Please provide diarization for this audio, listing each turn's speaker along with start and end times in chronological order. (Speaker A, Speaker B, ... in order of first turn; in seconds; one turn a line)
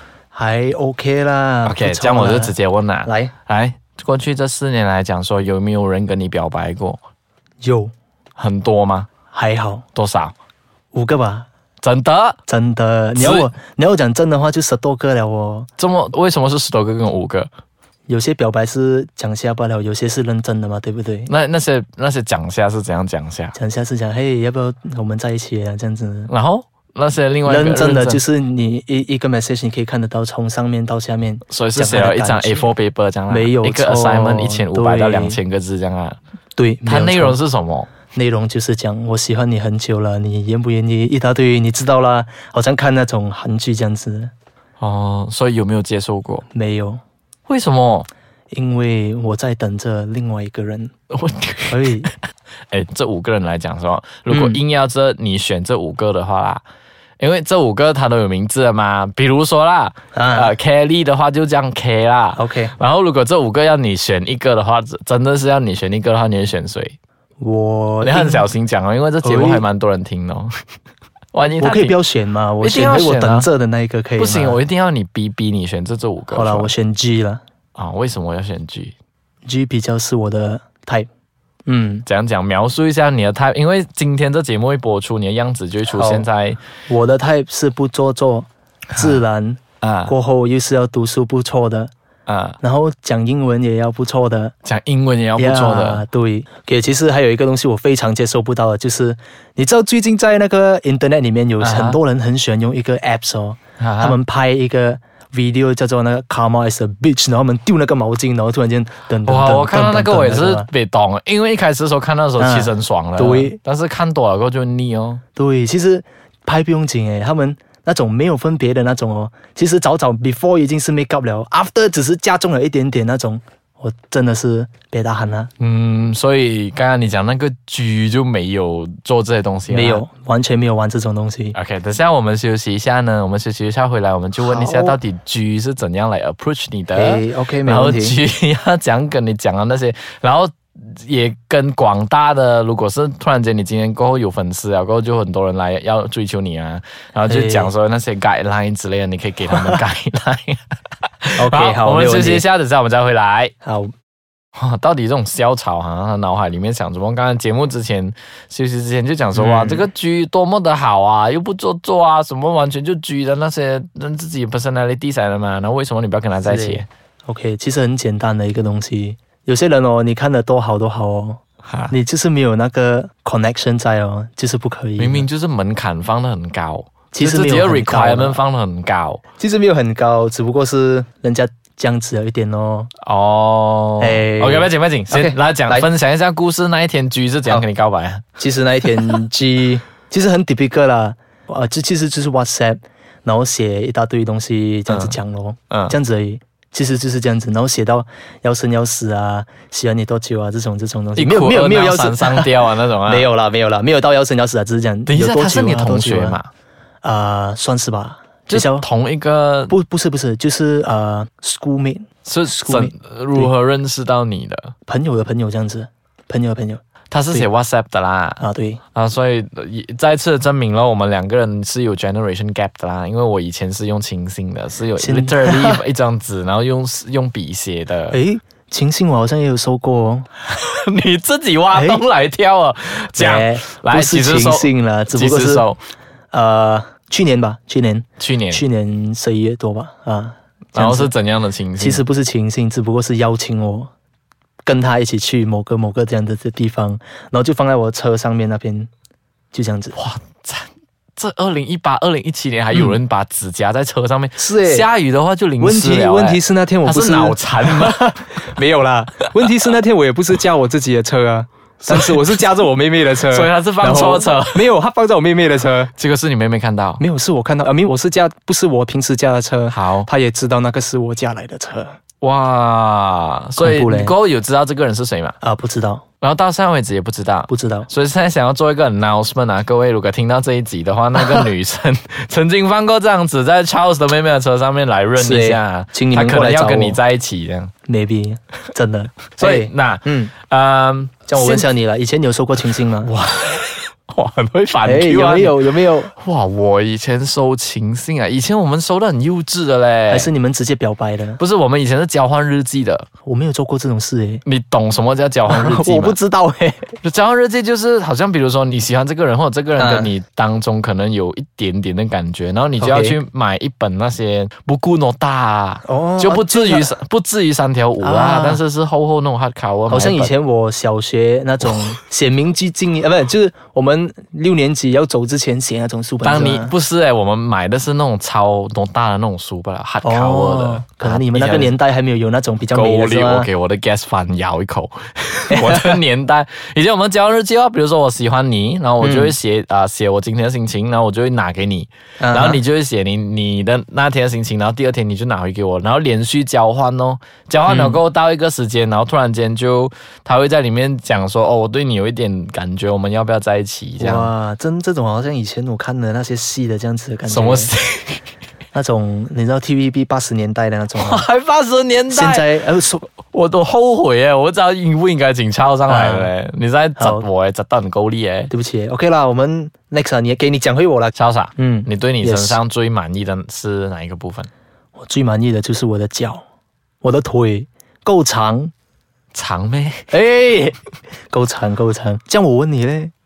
Speaker A: 0.3-2.5
Speaker B: 1.6-7.0
Speaker A: 3.0-3.3
Speaker A: 7.6-7.9
Speaker B: 8.4-9.1
Speaker A: 9.3-9.8
Speaker B: 9.9-10.3
Speaker A: 10.9-11.5
Speaker B: 11.8-12.4
Speaker A: 12.4-15.7
Speaker B: 13.1-13.5
Speaker B: 15.8-17.5
Speaker A: 18.1-21.3
Speaker B: 21.3-23.6
Speaker A: 23.5-26.3
Speaker B: 26.3-28.2
Speaker A: 27.4-32.7
Speaker B: 31.5-36.2
Speaker A: 33.3-35.4
Speaker A: 36.5-37.4
Speaker B: 36.9-37.9
Speaker A: 38.1-44.3
Speaker B: 44.8-46.4
Speaker A: 46.5-47.0
Speaker B: 47.5-48.1
Speaker A: 48.5-50.9
Speaker B: 51.1-52.1
Speaker A: 51.7-52.1
Speaker B: 52.7-56.6
Speaker A: 54.3-54.6
Speaker B: 57.2-67.0
Speaker A: 60.1-60.5
Speaker A: 62.3-62.7
Speaker A: 67.4-68.5
Speaker B: 68.0-70.5
Speaker A: 69.2-69.6
Speaker B: 71.3-72.0
Speaker A: 71.6-74.6
Speaker B: 72.6-73.5
Speaker B: 74.2-76.7
Speaker A: 76.3-77.4
Speaker B: 77.8-78.9
Speaker A: 79.4-81.1
Speaker A: 81.7-82.0
Speaker B: 82.0-86.6
Speaker A: 85.9-86.3
Speaker A: 86.9-91.9
Speaker B: 89.8-90.1
Speaker B: 92.3-92.6
Speaker A: 92.6-94.5
Speaker B: 94.6-96.0
Speaker A: 95.4-110.7
Speaker B: 101.6-102.0
Speaker B: 103.8-104.2
Speaker B: 109.2-115.2
Speaker A: 112.4-113.6
Speaker A: 115.3-125.5
Speaker B: 125.6-130.0
Speaker A: 129.7-131.6
Speaker B: 131.5-150.6
Speaker A: 134.4-135.0
Speaker A: 136.9-138.2
Speaker A: 147.3-147.7
Speaker B: 151.2-153.5
Speaker A: 151.3-152.4
Speaker A: 153.6-153.9
Speaker B: 154.6-166.9
Speaker A: 159.3-159.9
Speaker A: 166.4-175.3
Speaker B: 171.7-171.9
Speaker B: 175.0-179.2
Speaker A: 177.1-178.4
Speaker A: 179.4-182.9
Speaker B: 183.0-188.2
Speaker A: 184.0-185.9
Speaker A: 188.4-206.4
Speaker B: 194.9-195.2
Speaker B: 201.2-203.3
Speaker B: 205.1-206.5
Speaker A: 207.0-208.8
Speaker B: 208.5-209.7
Speaker A: 209.7-213.5
Speaker B: 212.2-214.7
Speaker A: 214.8-216.8
Speaker B: 217.1-218.4
Speaker A: 218.4-218.8
Speaker B: 218.9-228.2
Speaker A: 225.0-225.8
Speaker A: 228.1-230.3
Speaker B: 230.4-235.8
Speaker A: 231.7-232.0
Speaker A: 233.2-235.7
Speaker A: 236.3-241.1
Speaker B: 238.2-238.6
Speaker B: 240.7-242.0
Speaker A: 241.8-243.9
Speaker A: 244.6-248.9
Speaker A: 249.5-250.0
Speaker B: 249.9-258.5
Speaker A: 254.4-254.9
Speaker A: 255.6-265.9
Speaker B: 261.8-262.4
Speaker B: 263.2-264.7
Speaker B: 265.9-267.0
Speaker A: 267.0-272.0
Speaker B: 269.7-270.1
Speaker B: 272.2-275.3
Speaker A: 273.6-274.1
Speaker A: 275.4-276.0
Speaker B: 276.2-287.7
Speaker A: 277.5-277.9
Speaker A: 285.1-287.0
Speaker A: 287.8-290.3
Speaker B: 289.3-291.7
Speaker A: 291.3-293.1
Speaker B: 293.0-295.6
Speaker A: 294.8-296.1
Speaker B: 296.2-300.3
Speaker A: 300.1-301.4
Speaker B: 301.4-303.1
Speaker A: 303.2-304.4
Speaker B: 304.4-306.2
Speaker A: 305.5-306.9
Speaker B: 307.0-320.3
Speaker A: 309.8-310.1
Speaker A: 312.8-313.2
Speaker A: 315.8-316.9
Speaker A: 318.0-318.6
Speaker A: 319.9-326.7
Speaker B: 326.2-331.8
Speaker A: 330.0-333.5
Speaker B: 332.7-354.3
Speaker A: 335.5-336.0
Speaker A: 339.0-339.4
Speaker A: 342.2-342.6
Speaker A: 347.7-348.0
Speaker A: 354.0-357.7
Speaker B: 357.3-358.2
Speaker A: 358.7-361.2
Speaker B: 360.9-362.6
Speaker A: 362.1-363.1
Speaker B: 363.1-368.5
Speaker A: 365.9-366.3
Speaker A: 367.0-367.2
Speaker A: 368.5-372.6
Speaker B: 371.1-374.5
Speaker A: 375.0-376.4
Speaker A: 377.0-378.7
Speaker B: 379.3-380.1
Speaker A: 380.1-380.8
Speaker A: 381.3-383.1